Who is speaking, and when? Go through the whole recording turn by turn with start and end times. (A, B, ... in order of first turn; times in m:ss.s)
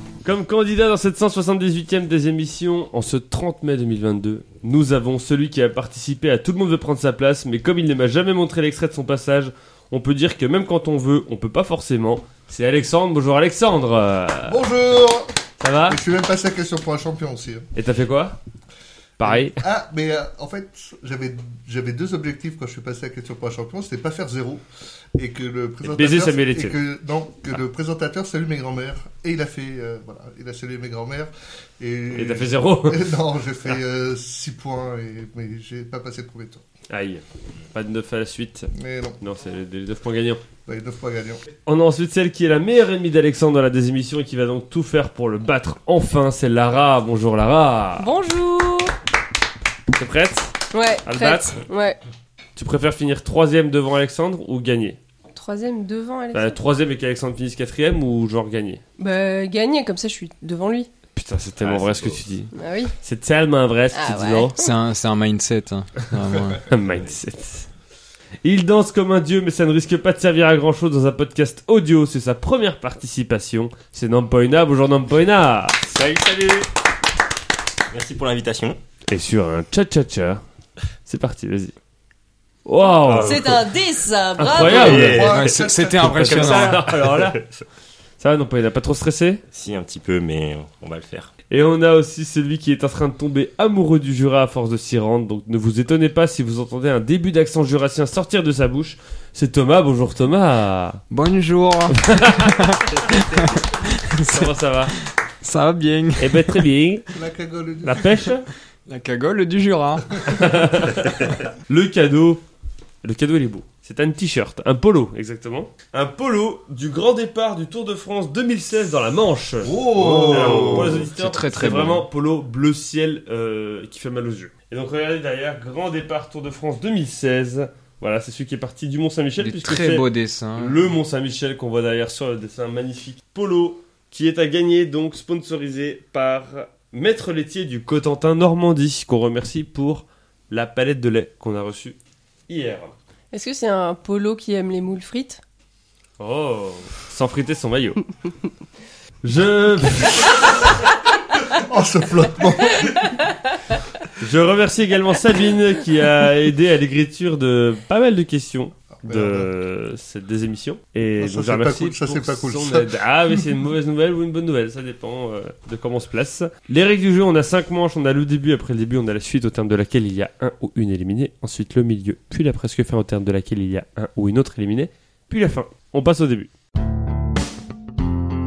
0:00.2-0:14.7 A
0:14.5-0:15.4 B
0:15.6-0:16.0 A
0:15.9-0:17.7 B
0:17.8-0:18.4 A
0:19.2-0:19.6 A
0:19.3-0:24.6 B
0:25.2-0:36.6 B
0:25.8-0:26.8 A
0:32.1-0:33.1 A
0:36.9-0:40.4 A
0:38.7-0:39.2 B
0:40.7-0:41.4 B
0:41.6-0:48.1 A
0:48.0-0:48.9 C
0:49.9-0:51.6 A
0:50.7-0:52.0 C
0:52.6-0:55.0 A
0:55.3-0:56.6 C
0:56.3-0:58.8 A
0:59.0-1:00.9 C
1:01.2-1:04.6 A
1:01.6-1:02.2 D
1:02.5-1:02.9 C
1:03.9-1:04.7 C
1:04.6-1:06.6 E
1:06.6-1:07.7 A
1:08.4-1:15.8 A
1:15.8-1:16.7 D
1:17.9-1:18.8 D
1:19.1-1:20.4 A
1:21.0-1:21.8 A
1:22.6-1:23.7 A
1:23.0-1:23.7 D
1:23.2-1:25.1 C
1:24.4-1:25.6 A
1:24.5-1:25.4 D
1:24.7-1:26.4 B
1:25.1-1:26.8 E
1:26.2-1:27.6 D
1:26.2-1:27.4 A
1:28.2-1:29.4 A
1:29.5-1:31.3 D
1:31.5-1:41.0 A
1:41.1-1:46.7 E
1:41.9-1:43.0 A
1:43.1-1:43.6 D
1:44.3-1:45.0 A
1:46.2-1:47.1 A
1:47.1-1:48.2 B
1:47.8-1:48.5 A
1:48.9-1:50.5 E
1:50.3-1:52.4 A
1:53.0-2:22.0 A
1:59.6-2:01.0 B
2:00.2-2:00.7 D
2:00.4-2:02.1 E
2:09.4-2:10.9 E
2:22.5-2:22.9 A
2:23.3-2:25.4 C
2:26.2-2:28.0 A
2:29.2-2:30.7 A
2:31.5-2:33.0 B
2:32.8-2:33.3 C
2:34.1-2:56.5 A
2:39.0-2:39.5 B
2:41.2-2:43.3 B